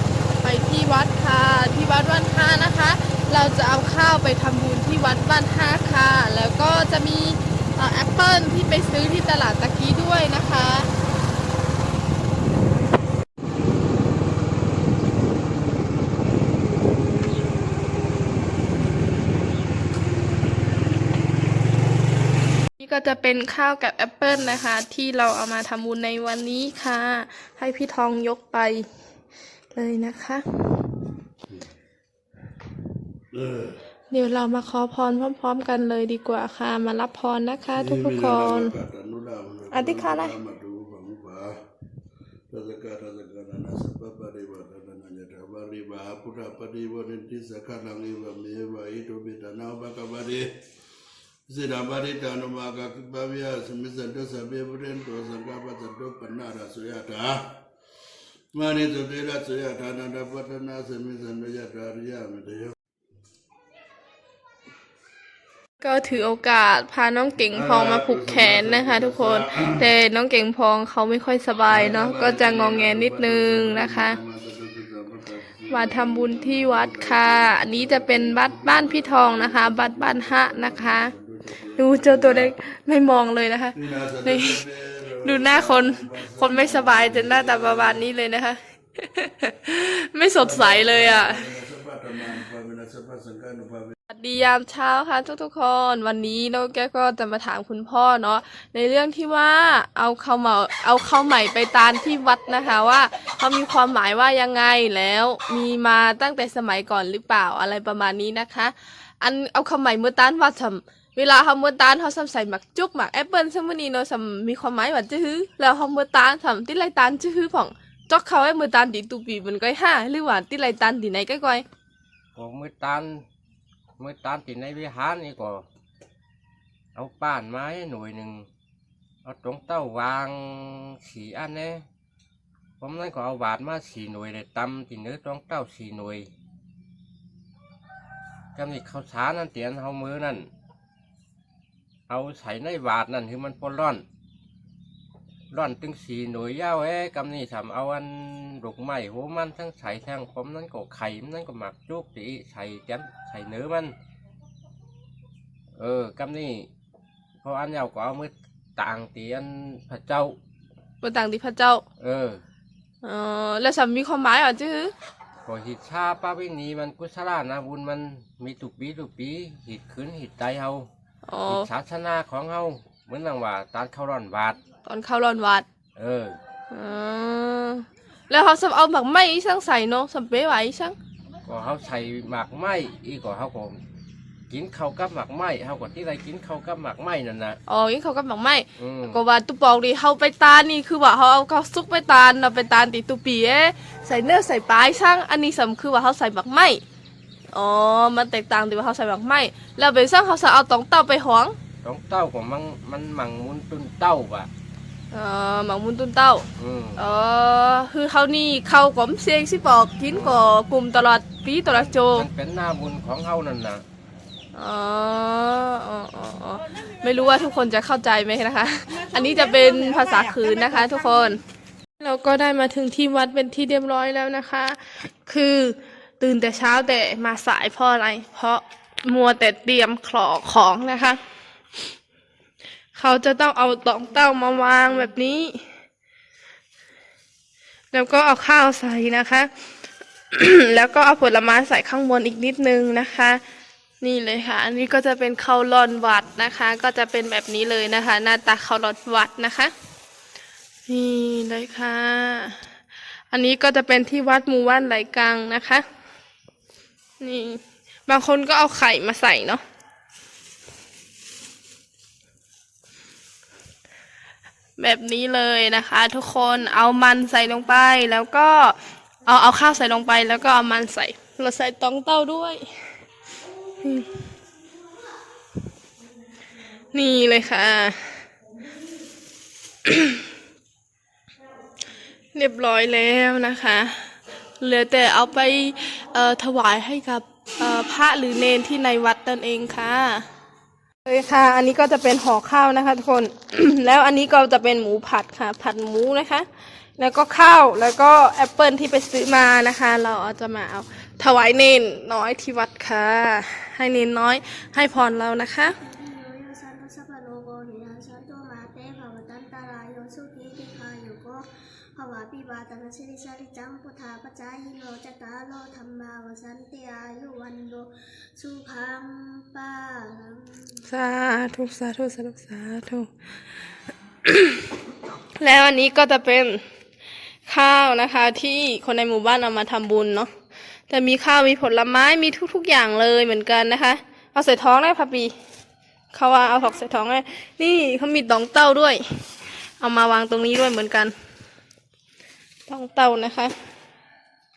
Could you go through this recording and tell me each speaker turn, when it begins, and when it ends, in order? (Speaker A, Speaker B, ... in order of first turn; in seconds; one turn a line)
Speaker A: 0.4-10.9
Speaker A: 22.8-28.9
Speaker A: 29.8-30.4
Speaker B: 33.3-33.8
Speaker A: 34.1-38.7
Speaker B: 37.7-41.5
Speaker A: 39.7-40.4
Speaker B: 42.5-50.5
Speaker B: 51.5-57.5
Speaker B: 58.5-62.8
Speaker A: 65.8-74.2
Speaker B: 67.5-69.9
Speaker B: 71.7-82.6
Speaker A: 75.7-81.1
Speaker A: 81.8-83.7
Speaker B: 83.7-88.1
Speaker A: 84.3-84.5
Speaker A: 85.2-88.6
Speaker A: 89.5-91.3
Speaker B: 90.3-94.0
Speaker A: 94.2-121.7
Speaker C: 122.3-123.2
Speaker C: 124.0-125.7
Speaker C: 127.0-128.5
Speaker C: 129.2-131.8
Speaker C: 132.8-136.3
Speaker C: 138.6-140.5
Speaker C: 142.1-144.1
Speaker C: 145.5-153.9
Speaker C: 155.8-156.7
Speaker C: 157.4-160.4
Speaker A: 161.0-161.8
Speaker C: 162.0-162.4
Speaker A: 163.0-164.9
Speaker C: 165.4-170.9
Speaker A: 171.3-171.6
Speaker C: 171.5-174.6
Speaker A: 174.9-175.7
Speaker C: 176.0-176.4
Speaker A: 176.7-181.0
Speaker C: 181.4-183.8
Speaker C: 184.5-187.6
Speaker A: 187.7-196.8
Speaker C: 188.8-189.3
Speaker A: 197.5-201.6
Speaker C: 201.8-204.5
Speaker A: 205.1-206.4
Speaker C: 206.6-207.0
Speaker A: 207.0-212.2
Speaker C: 210.1-210.6
Speaker C: 211.6-213.8
Speaker A: 214.6-221.4
Speaker A: 222.0-231.2
Speaker A: 233.0-235.5
Speaker A: 237.9-239.5
Speaker A: 240.4-243.4
Speaker A: 244.0-249.7
Speaker A: 250.9-252.5
Speaker A: 253.3-255.8
Speaker A: 257.2-259.6
Speaker A: 264.8-268.7
Speaker A: 269.3-272.6
Speaker A: 276.9-278.0
Speaker A: 282.4-284.1
Speaker A: 284.6-290.2
Speaker A: 291.1-296.5
Speaker A: 297.0-305.8
Speaker D: 305.8-320.9
Speaker A: 320.9-323.1
Speaker A: 325.4-326.6
Speaker A: 327.5-330.3
Speaker A: 330.9-335.3
Speaker A: 336.1-339.0
Speaker A: 339.8-341.1
Speaker A: 342.7-343.5